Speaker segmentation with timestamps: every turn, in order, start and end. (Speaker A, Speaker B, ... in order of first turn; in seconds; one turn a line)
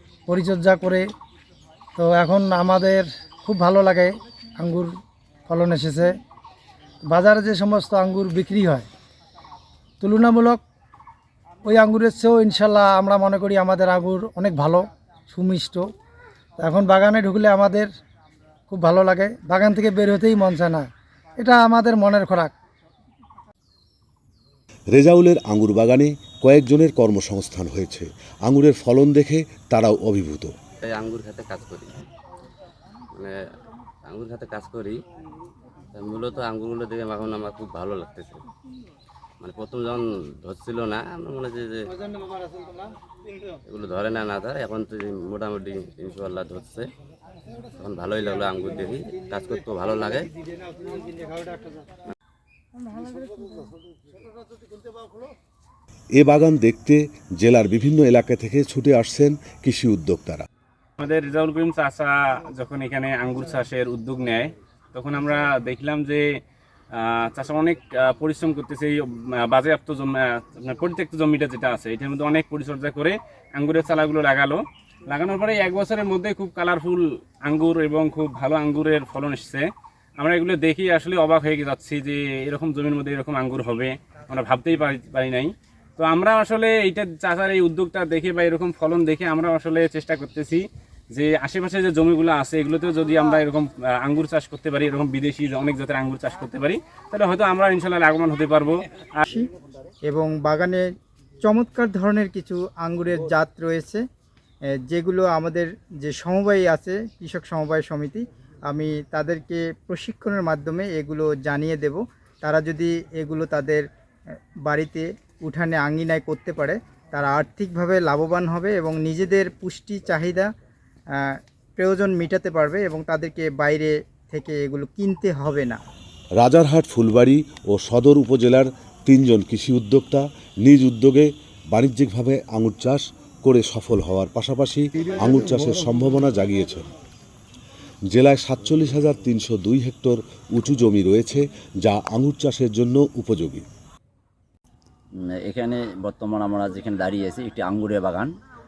Speaker A: 0.3-1.1
Speaker A: 1.9-4.9
Speaker A: 5.5-6.1
Speaker A: 7.1-8.9
Speaker A: 10.0-10.6
Speaker A: 11.6-15.9
Speaker A: 16.6-17.9
Speaker A: 18.7-22.5
Speaker B: 24.9-30.5
Speaker C: 30.8-32.1
Speaker C: 33.1-33.4
Speaker C: 34.0-35.0
Speaker C: 35.9-38.4
Speaker C: 39.4-42.0
Speaker C: 43.6-46.9
Speaker C: 47.7-50.3
Speaker B: 56.2-60.5
Speaker D: 61.0-66.4
Speaker D: 66.9-99.2
Speaker E: 100.0-100.8
Speaker E: 101.4-104.0
Speaker E: 104.9-113.8
Speaker E: 114.7-120.5
Speaker E: 121.2-125.8
Speaker B: 126.4-136.9
Speaker B: 138.1-143.7
Speaker F: 145.4-148.3